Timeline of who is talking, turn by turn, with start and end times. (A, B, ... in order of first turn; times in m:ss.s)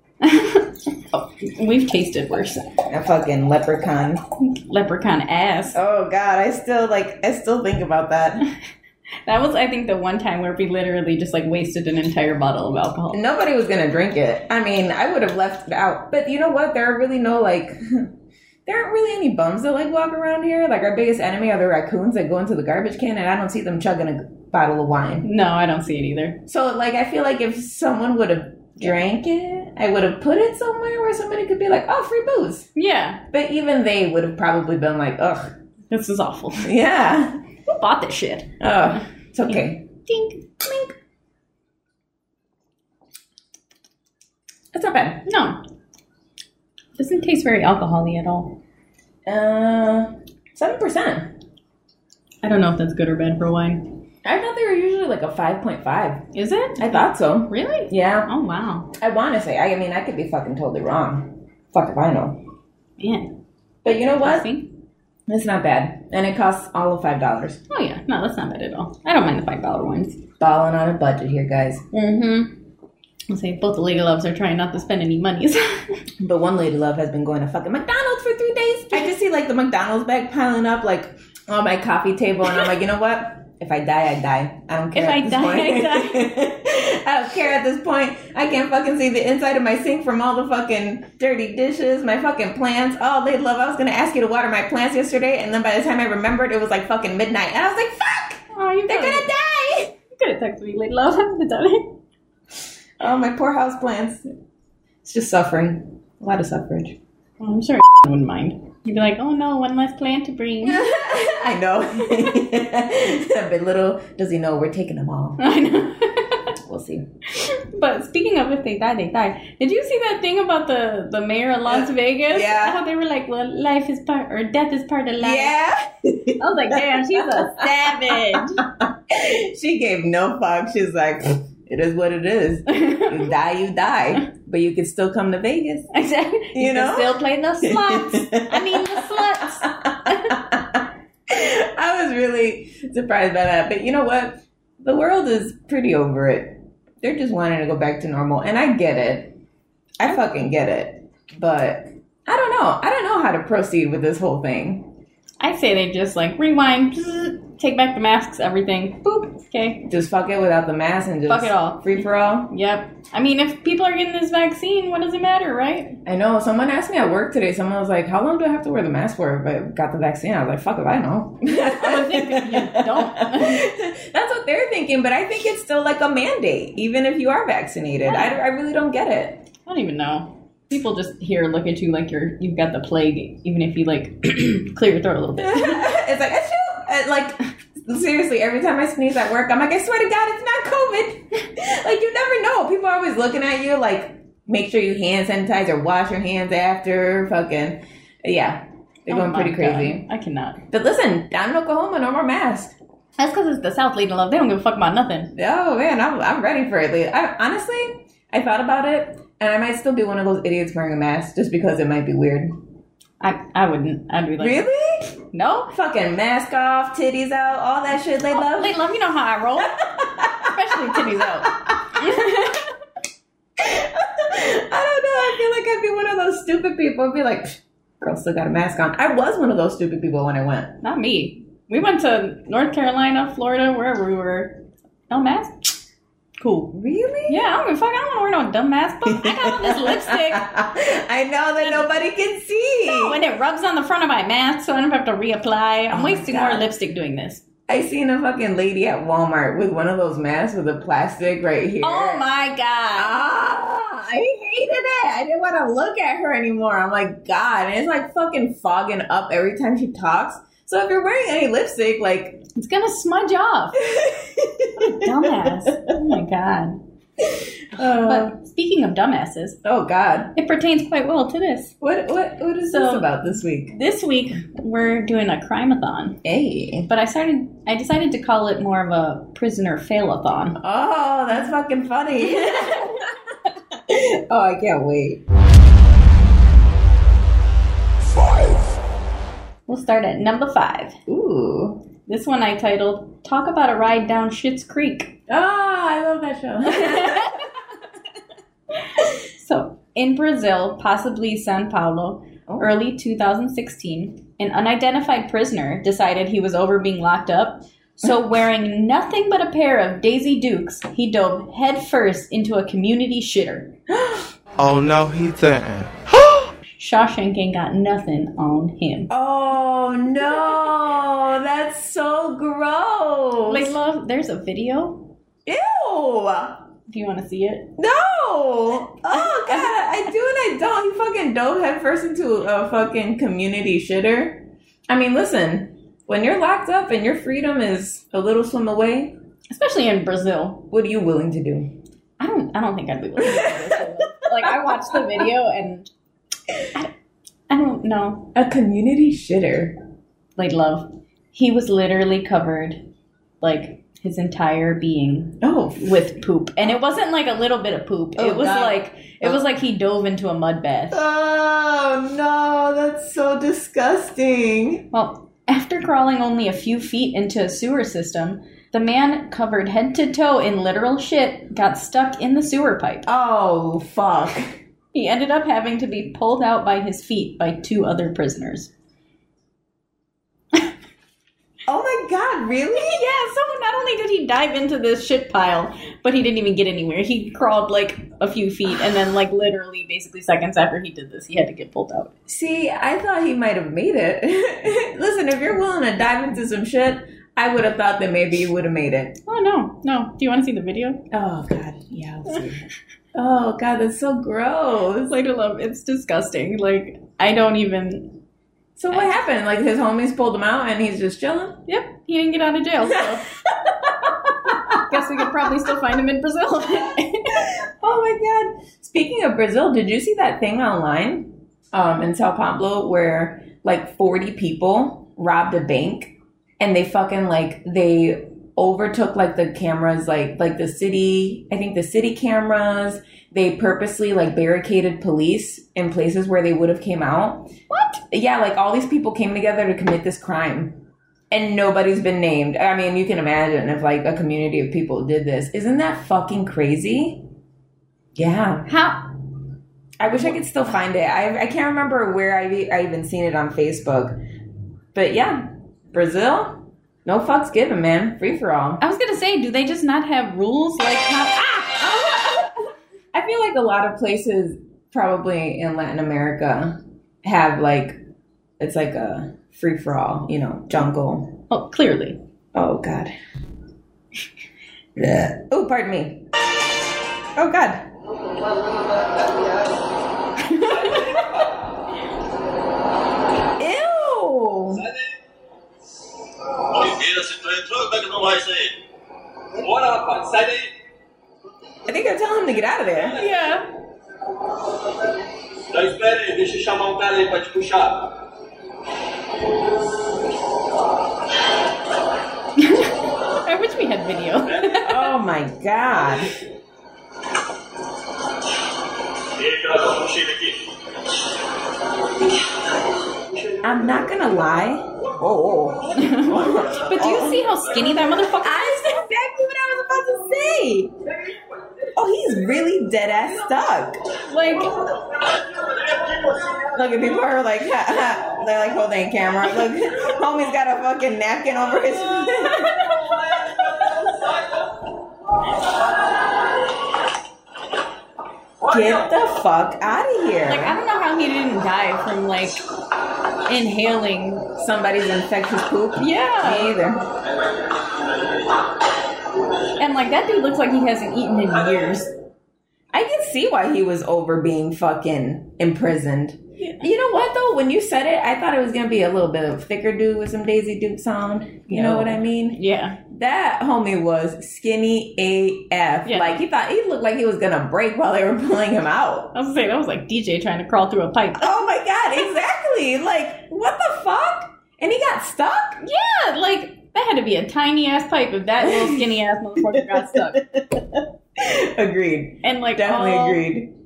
0:00.2-0:02.6 A
0:02.9-0:04.2 B
0:04.4-0:05.8 A
0:05.7-0:08.5 B
0:09.3-0:13.2 A
0:13.1-0:18.1 B
0:18.7-0:25.3 B
0:25.2-0:26.4 A
0:26.5-0:32.7 B
0:32.8-0:33.2 A
0:33.3-0:35.6 B
0:35.9-0:36.7 A
0:36.6-0:37.4 B
0:37.7-0:38.6 A
0:38.6-0:39.9 B
0:39.5-0:40.9 A
0:44.7-0:45.2 B
0:45.3-0:45.6 A
0:47.0-0:48.6 A
0:49.3-0:51.3 B
0:52.4-0:54.0 A
0:54.2-0:56.2 B
0:56.3-0:58.9 A
0:56.8-0:58.3 B
0:58.9-1:02.4 B
1:03.0-1:03.3 A
1:03.8-1:04.5 B
1:04.2-1:04.7 A
1:05.3-1:07.6 B
1:07.7-1:10.2 A
1:10.4-1:11.8 B
1:11.9-1:12.6 A
1:13.3-1:16.0 A
1:16.2-1:39.9 B
1:24.9-1:26.3 A
1:38.5-1:39.3 A
1:40.1-1:41.9 A
1:43.0-1:44.3 B
1:45.0-1:47.0 B
1:47.4-1:50.9 A
1:50.6-1:55.4 B
1:55.4-1:56.5 A
1:56.6-1:57.1 B
1:57.4-2:05.6 A
2:01.7-2:02.8 B
2:05.2-2:15.9 B
2:06.4-2:08.6 A
2:12.7-2:13.2 A
2:15.9-2:20.4 A
2:16.6-2:29.4 B
2:30.0-2:34.9 B
2:35.4-2:39.8 A
2:39.8-2:42.5 B
2:41.3-2:46.0 A
2:46.0-2:59.5 B
2:51.5-2:53.6 A
2:58.1-2:58.4 A
2:59.7-3:05.9 A
3:05.4-3:20.1 B
3:19.1-3:20.6 A
3:20.7-3:22.8 B
3:23.2-3:25.3 A
3:25.3-3:32.6 B
3:33.2-3:34.7 A
3:34.4-3:35.0 B
3:35.3-3:35.7 A
3:35.7-3:38.8 B
3:38.4-3:42.7 A
3:39.6-3:42.2 B
3:43.6-3:50.7 B
3:50.8-3:55.7 A
3:56.4-3:56.7 A
3:56.7-3:57.5 B
3:57.3-4:00.5 A
3:59.1-4:03.2 B
4:02.9-4:07.4 A
4:05.9-4:06.7 B
4:07.7-4:12.3 B
4:11.8-4:13.2 A
4:13.0-4:22.4 B
4:22.6-4:23.8 A
4:23.8-4:25.6 B
4:24.8-4:26.8 A
4:27.7-4:28.3 B
4:27.8-4:29.6 A
4:29.6-4:30.3 B
4:30.3-4:31.8 A
4:31.8-4:33.8 B
4:32.6-4:33.1 A
4:33.7-4:36.2 A
4:36.2-4:36.9 B
4:36.9-4:40.6 A
4:40.6-4:43.1 B
4:42.4-4:42.9 A
4:43.9-4:45.2 B
4:49.7-4:51.0 A
4:51.1-4:51.8 B
4:52.1-4:55.2 A
4:55.3-4:57.5 B
4:56.7-4:57.3 A
4:59.0-5:13.7 A
5:13.9-5:14.3 B
5:14.6-5:16.5 C
5:16.8-5:19.1 A
5:19.1-5:23.8 B
5:23.4-5:25.1 A
5:25.5-5:26.6 B
5:26.9-5:27.8 A
5:27.8-5:39.2 B
5:29.1-5:29.7 A
5:39.5-5:40.6 A
5:40.7-5:41.7 B
5:42.2-5:45.9 A
5:43.2-5:44.8 B
5:47.5-5:48.3 A
5:48.3-5:49.8 B
5:50.4-5:52.8 A
5:53.4-6:01.0 A
5:55.4-5:56.0 B
5:58.2-5:59.4 B
6:00.9-6:04.9 B
6:04.9-6:13.1 A
6:13.0-6:14.6 B
6:14.9-6:18.7 A
6:21.7-6:23.0 B
6:22.8-6:32.1 A
6:32.3-6:39.2 B
6:39.3-6:41.0 A
6:41.1-6:42.6 B
6:43.1-6:45.1 B
6:45.0-6:48.2 A
6:48.8-6:51.6 B
6:51.7-6:53.2 A
6:54.5-6:57.5 A
6:54.5-6:55.0 B
6:57.3-7:17.5 B
7:17.7-7:18.0 A
7:18.1-7:27.2 B
7:28.2-7:28.7 B
7:28.7-7:29.1 A
7:30.0-7:34.2 B
7:34.9-7:38.8 B
7:38.8-7:41.8 A
7:41.7-7:48.0 B
7:48.6-7:51.4 B
7:51.5-7:52.2 A
7:52.5-7:53.1 B
7:55.0-7:56.2 B
7:57.4-7:57.8 B
8:00.4-8:01.2 A
8:00.8-8:01.5 D
8:03.6-8:04.9 B
8:06.7-8:08.8 D
8:09.6-8:10.7 D
8:11.9-8:13.2 B
8:13.2-8:13.7 A
8:15.7-8:18.1 D
8:22.6-8:25.1 A
8:24.8-8:26.3 B
8:29.4-8:30.7 D
8:33.6-8:37.6 B
8:36.0-8:39.0 A
8:38.4-8:40.9 B
8:42.0-8:44.0 B
8:44.3-8:44.7 A
8:45.9-8:46.6 D
8:46.7-8:53.0 B
8:58.6-9:00.8 B
9:00.4-9:02.6 A
9:03.5-9:04.5 A
9:04.5-9:07.0 B
9:06.0-9:06.8 A
9:09.8-9:12.1 A
9:12.9-9:29.3 B
9:16.6-9:16.9 A
9:21.7-9:23.0 A
9:26.1-9:26.4 A
9:29.3-9:31.6 A
9:31.4-9:35.8 B
9:35.8-9:40.4 A
9:38.6-9:39.1 B
9:39.8-9:43.7 B
9:42.4-9:43.4 A